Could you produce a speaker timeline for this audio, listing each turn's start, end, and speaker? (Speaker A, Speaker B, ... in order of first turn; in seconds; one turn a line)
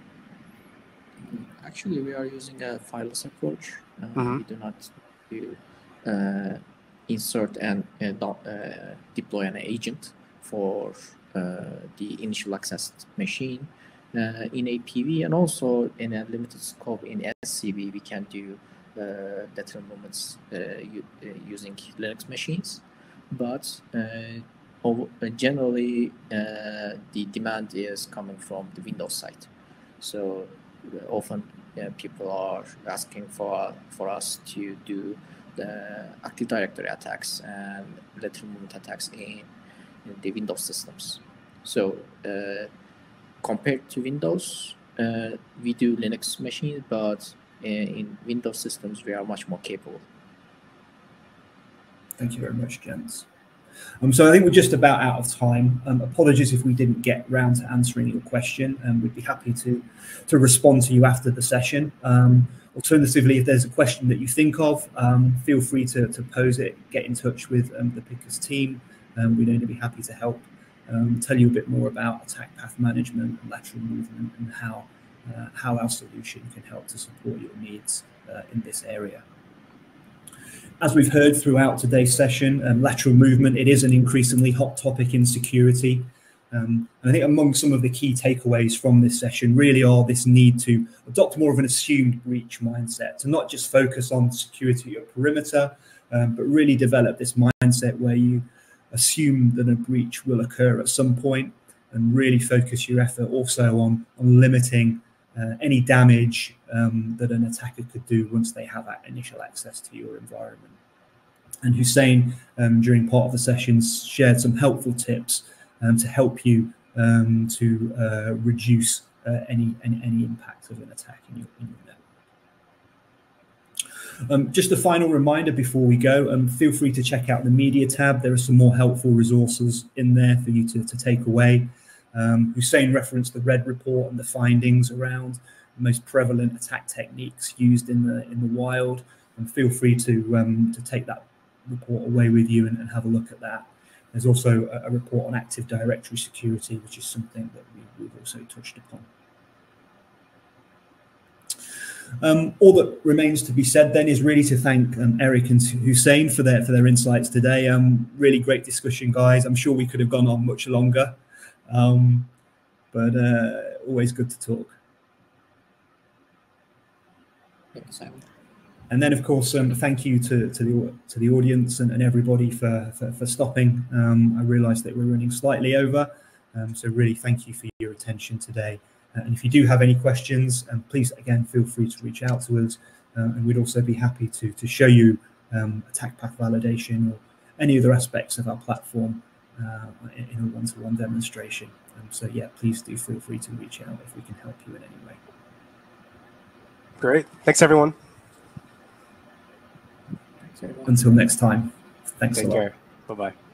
Speaker A: 1.2-29.5
Speaker B: 4.2-4.4
Speaker A: 30.0-39.5
Speaker A: 40.0-42.7
Speaker A: 43.4-50.0
Speaker C: 52.2-53.3
Speaker C: 54.0-79.2
Speaker C: 80.8-110.7
Speaker C: 111.6-122.0
Speaker C: 124.3-149.1
Speaker C: 152.2-162.3
Speaker C: 162.9-164.8
Speaker A: 167.8-168.2
Speaker C: 168.9-195.2
Speaker B: 197.0-197.9
Speaker A: 200.5-200.9
Speaker C: 200.9-202.7
Speaker B: 202.3-203.3